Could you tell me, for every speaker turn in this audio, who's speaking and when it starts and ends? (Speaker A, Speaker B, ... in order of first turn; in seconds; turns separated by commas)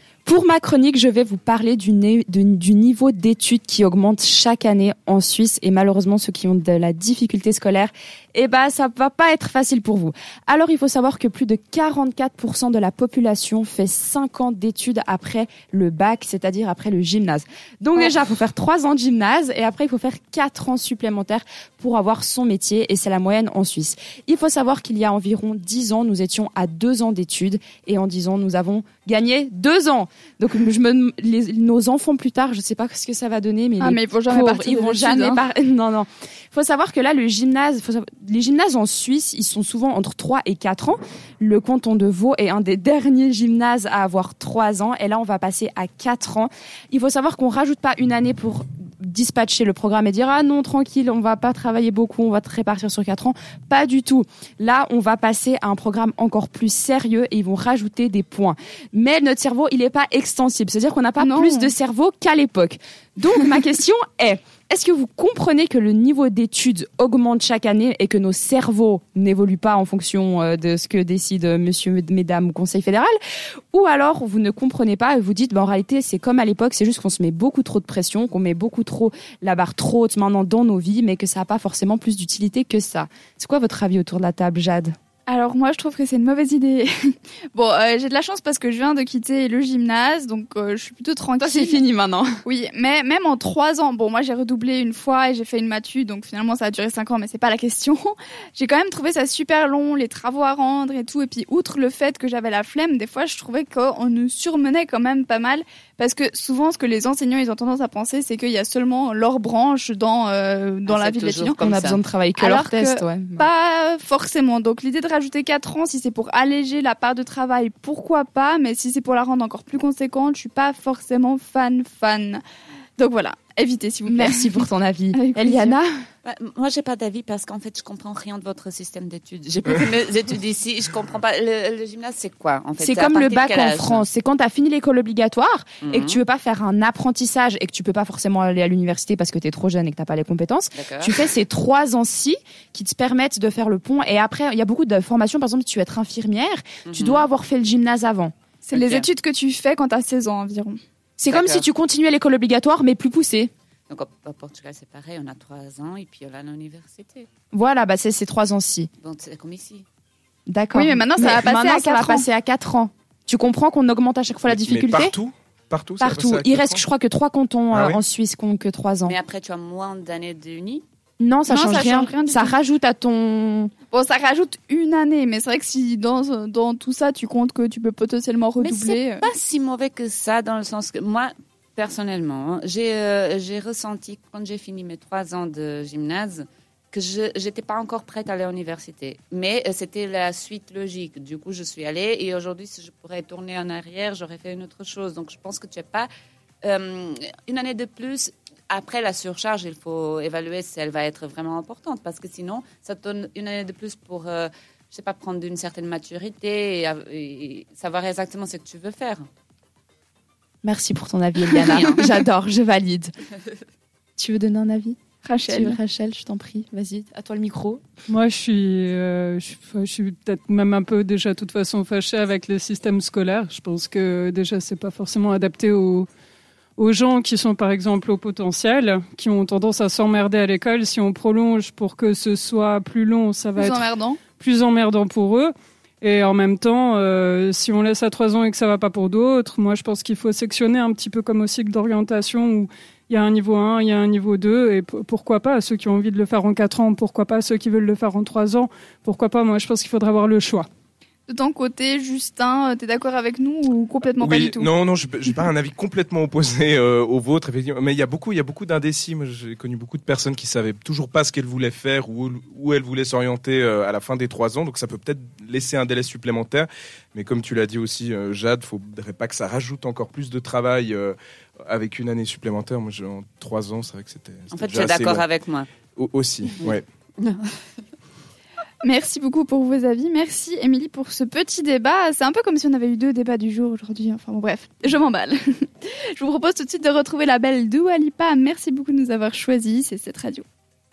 Speaker A: 0.2-73.1, Speaker B: 33.8-35.4, Speaker B: 61.2-61.7, Speaker A: 73.7-84.9, Speaker B: 85.3-91.8, Speaker A: 91.4-92.4, Speaker B: 92.5-111.6, Speaker C: 110.8-112.0, Speaker A: 111.6-113.5, Speaker B: 112.3-122.4, Speaker B: 123.0-125.8, Speaker A: 124.1-125.9, Speaker C: 126.2-134.1, Speaker A: 132.8-148.3, Speaker C: 135.8-136.2, Speaker C: 140.8-141.2, Speaker C: 146.8-147.2, Speaker B: 148.7-150.8, Speaker C: 148.7-149.1, Speaker A: 151.2-153.5, Speaker C: 151.3-151.6, Speaker C: 153.9-157.3, Speaker A: 157.5-158.9, Speaker C: 159.0-159.8, Speaker A: 160.5-165.1, Speaker B: 160.7-162.2, Speaker D: 164.5-166.7, Speaker A: 166.0-169.2, Speaker D: 167.7-168.0, Speaker C: 169.1-170.8, Speaker A: 171.2-173.7, Speaker B: 171.5-172.5, Speaker B: 173.9-179.2, Speaker C: 178.6-196.1, Speaker C: 196.6-209.2, Speaker A: 210.6-213.1, Speaker C: 211.7-212.0, Speaker A: 214.2-217.8, Speaker B: 215.2-215.8, Speaker E: 218.1-226.1, Speaker E: 226.8-250.7, Speaker B: 233.6-234.2, Speaker B: 251.3-254.7, Speaker D: 254.2-275.2, Speaker C: 274.5-275.7, Speaker D: 276.0-276.8, Speaker C: 276.6-277.5, Speaker B: 278.8-290.4